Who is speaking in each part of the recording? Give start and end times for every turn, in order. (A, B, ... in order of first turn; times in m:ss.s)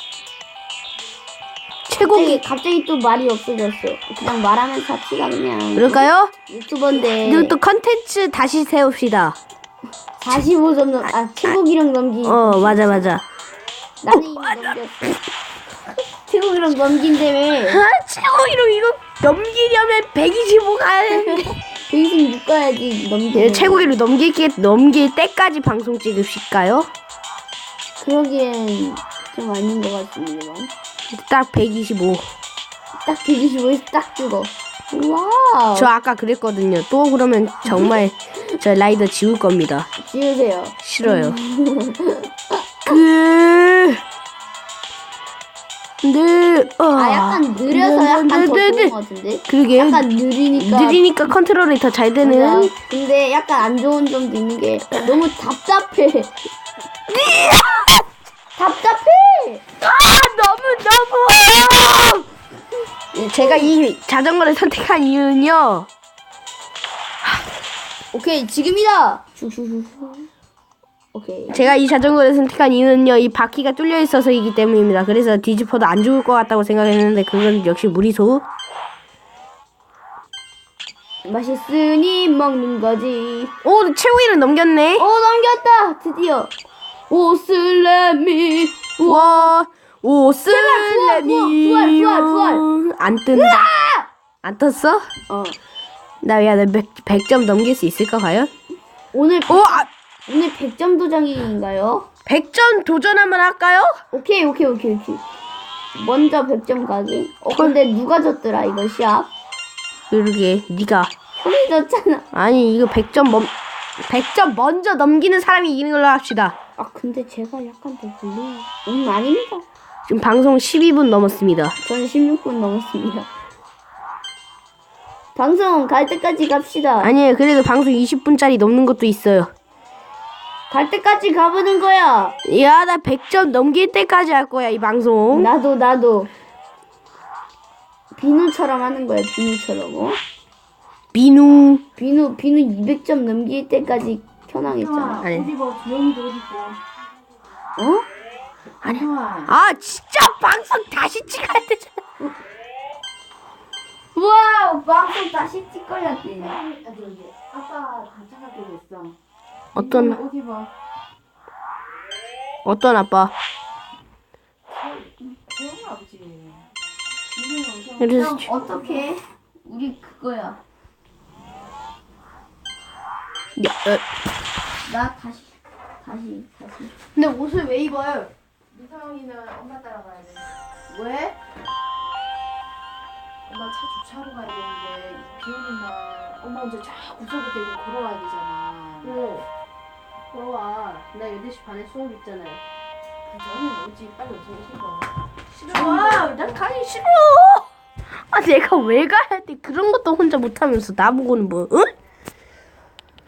0:01.9-0:02.4 A
0:02.0-0:07.6 B
0:05.7-0:06.3 A
0:06.9-0:09.4 A
0:10.2-0:13.1 B
0:12.2-0:13.2 A
0:14.0-0:15.2 B
0:14.1-0:14.7 A
0:16.3-0:17.8 B
0:17.7-0:21.5 A
0:21.1-0:23.9 B
0:23.3-0:26.9 A
0:28.0-0:30.7 B
0:31.1-0:32.3 A
0:33.0-0:35.9 B
0:35.7-0:39.9 A
0:37.6-0:38.0 B
0:40.0-0:43.0 B
0:40.8-0:41.4 A
0:42.8-0:44.0 A
0:46.0-0:48.9 A
0:47.0-0:51.0 B
0:49.5-0:50.0 A
0:50.6-0:52.7 A
0:52.2-0:56.3 B
0:57.1-0:58.0 A
0:58.6-0:59.7 B
0:59.8-1:02.2 A
1:03.1-1:05.9 A
1:03.2-1:03.7 B
1:08.1-1:10.3 B
1:11.1-1:11.8 B
1:11.5-1:18.4 A
1:21.2-1:23.5 B
1:23.6-1:25.0 A
1:25.0-1:26.5 B
1:27.1-1:29.5 B
1:29.0-1:33.6 A
1:30.5-1:32.6 B
1:33.3-1:34.1 B
1:34.4-1:35.1 A
1:35.3-1:35.6 B
1:36.2-1:38.5 A
1:39.1-1:42.1 B
1:39.5-1:39.9 A
1:42.2-1:43.9 A
1:44.1-1:45.2 B
1:45.9-1:49.3 B
1:50.1-1:51.1 A
1:51.4-1:52.2 B
1:52.3-1:53.5 A
1:54.1-1:56.5 A
1:56.8-1:59.6 B
2:00.1-2:01.8 A
2:01.8-2:03.3 B
2:05.4-2:07.1 B
2:07.0-2:09.5 A
2:10.7-2:12.4 B
2:12.4-2:15.5 A
2:15.3-2:16.3 B
2:18.2-2:20.2 B
2:21.1-2:21.8 A
2:22.0-2:25.3 B
2:24.8-2:26.8 C
2:25.2-2:25.5 A
2:27.8-2:28.0 B
2:28.8-2:32.0 A
2:29.0-2:29.5 C
2:34.1-2:36.6 B
2:36.4-2:39.2 C
2:39.7-2:40.2 A
2:39.8-2:40.7 C
2:42.6-2:43.3 A
2:44.8-2:46.7 C
2:47.3-2:49.0 C
2:48.0-2:48.5 A
2:48.1-2:50.6 B
2:53.6-2:54.0 A
2:54.8-2:57.0 B
2:57.2-2:57.9 A
2:57.5-3:01.4 C
3:03.5-3:09.1 C
3:09.0-3:09.4 A
3:10.3-3:12.6 A
3:13.3-3:15.1 C
3:15.5-3:17.7 A
3:15.7-3:16.6 C
3:18.3-3:21.9 A